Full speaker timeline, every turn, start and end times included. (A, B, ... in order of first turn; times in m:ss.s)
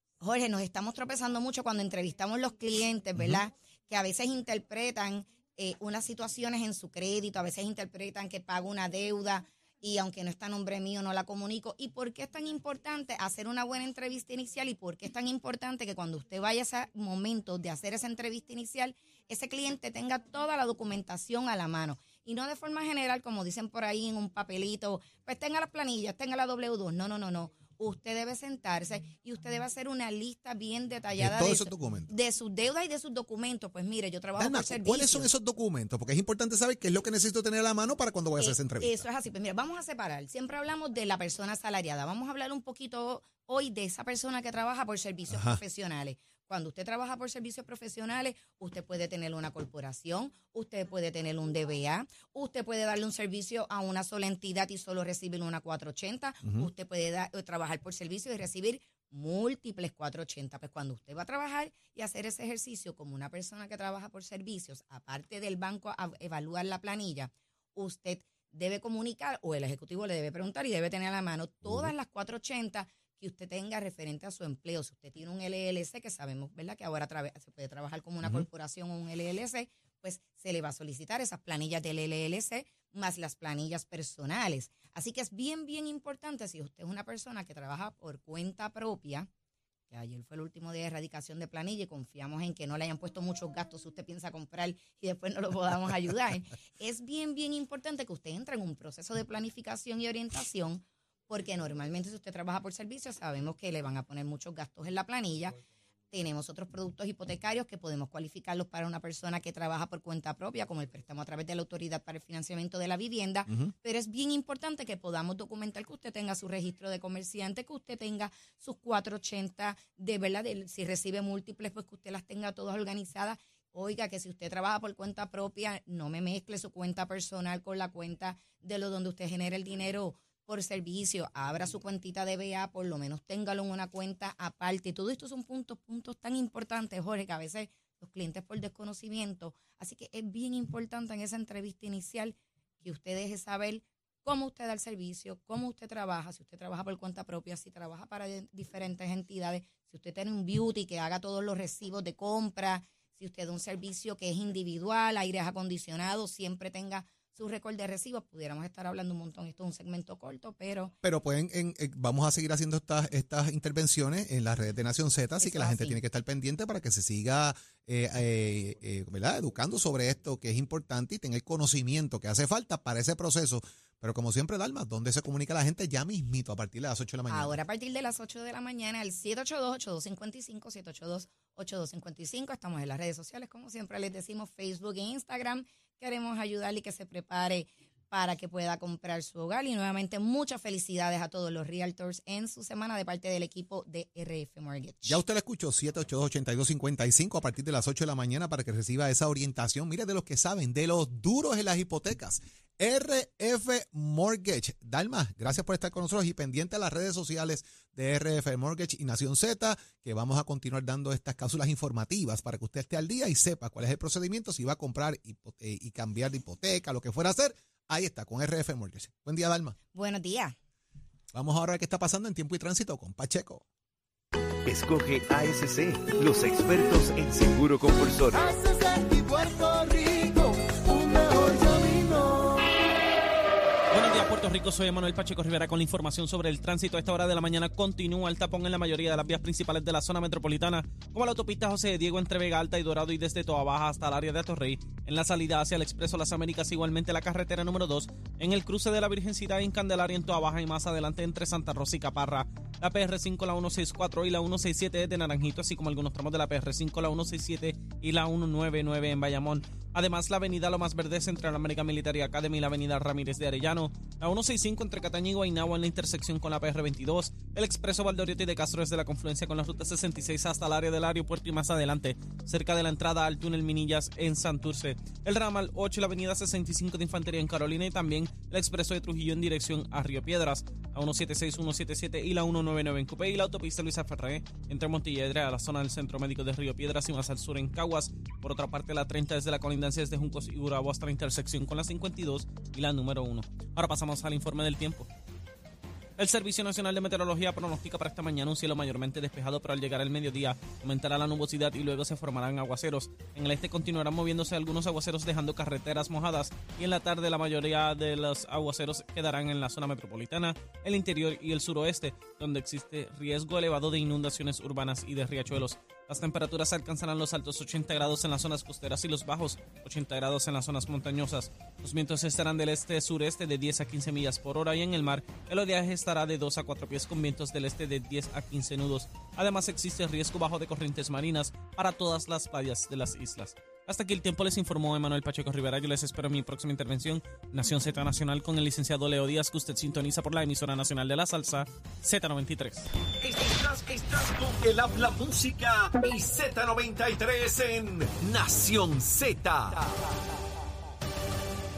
0:00.2-0:35.3 A
0:31.2-0:32.1 B
0:34.4-0:39.1 B
0:38.4-1:29.3 A
0:45.3-0:45.6 B
0:56.4-0:56.7 B
1:11.6-1:11.9 B
1:29.9-1:45.6 A
1:46.1-2:40.9 A
2:41.0-2:57.6 B
2:45.4-2:46.0 A
2:57.3-3:15.2 A
3:15.1-3:39.8 B
3:39.9-3:40.5 A
3:41.3-3:43.6 B
3:44.7-3:52.6 C
3:53.9-4:55.1 D
4:56.2-5:42.9 D
5:43.2-5:49.9 E